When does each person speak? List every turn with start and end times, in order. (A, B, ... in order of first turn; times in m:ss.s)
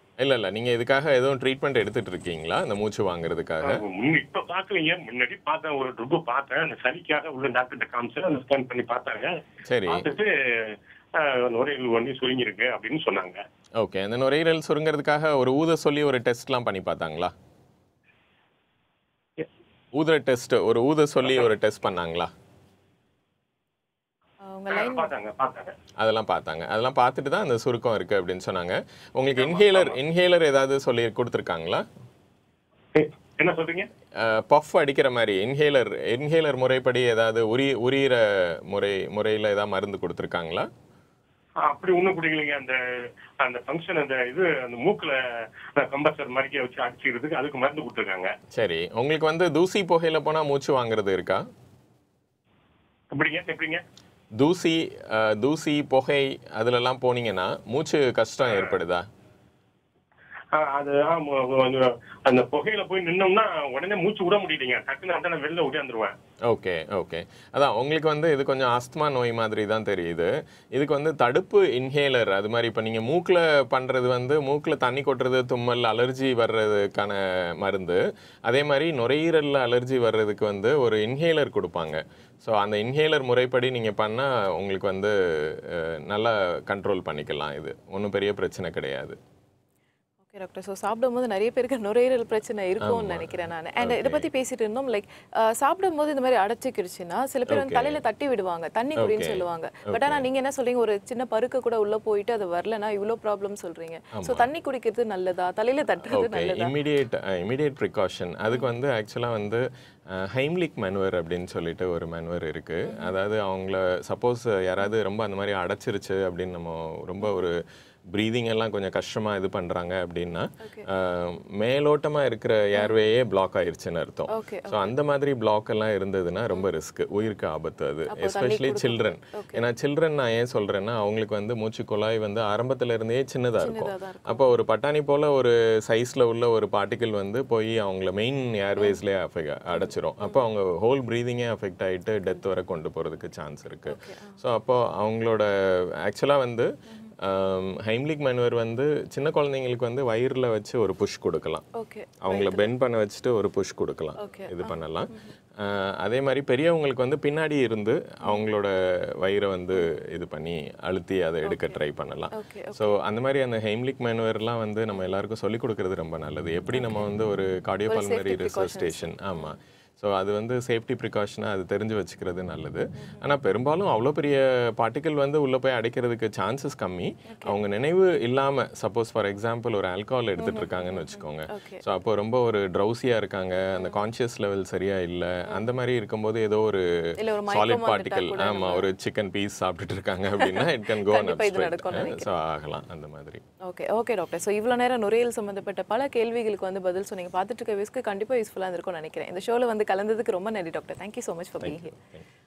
0:00.2-0:03.8 A
0:03.6-0:09.3 B
0:09.7-0:10.1 A
0:09.9-0:13.4 B
0:13.8-0:17.3 A
0:19.9-0:22.3 A
0:24.4-0:25.1 C
0:24.7-0:25.7 B
0:26.0-0:31.8 A
0:29.4-0:30.0 B
0:32.9-0:33.9 B
0:34.2-0:40.7 A
0:41.6-0:45.2 B
0:45.7-0:48.3 B
0:48.5-0:51.4 A
0:53.1-0:53.8 B
0:54.4-0:59.1 A
0:58.5-0:58.7 B
1:00.5-1:06.2 B
1:06.5-1:29.2 A
1:30.3-1:46.7 C
1:32.8-1:34.3 A
1:37.5-1:38.0 A
1:39.0-1:40.2 A
1:44.2-1:44.5 A
1:46.1-2:31.7 A
1:52.8-1:53.2 C
2:00.6-2:00.9 C
2:04.3-2:05.0 C
2:08.1-2:09.6 C
2:13.6-2:14.4 C
2:23.9-2:24.4 C
2:31.8-2:32.7 C
2:32.2-3:13.4 A
2:34.2-2:35.3 C
2:41.5-2:41.8 C
2:42.3-2:43.0 C
2:47.9-2:49.5 C
2:53.0-2:53.2 C
2:57.3-2:57.6 C
3:00.4-3:01.8 C
3:07.2-3:08.9 C
3:10.4-3:12.3 C
3:13.6-3:21.9 C
3:21.6-3:22.3 A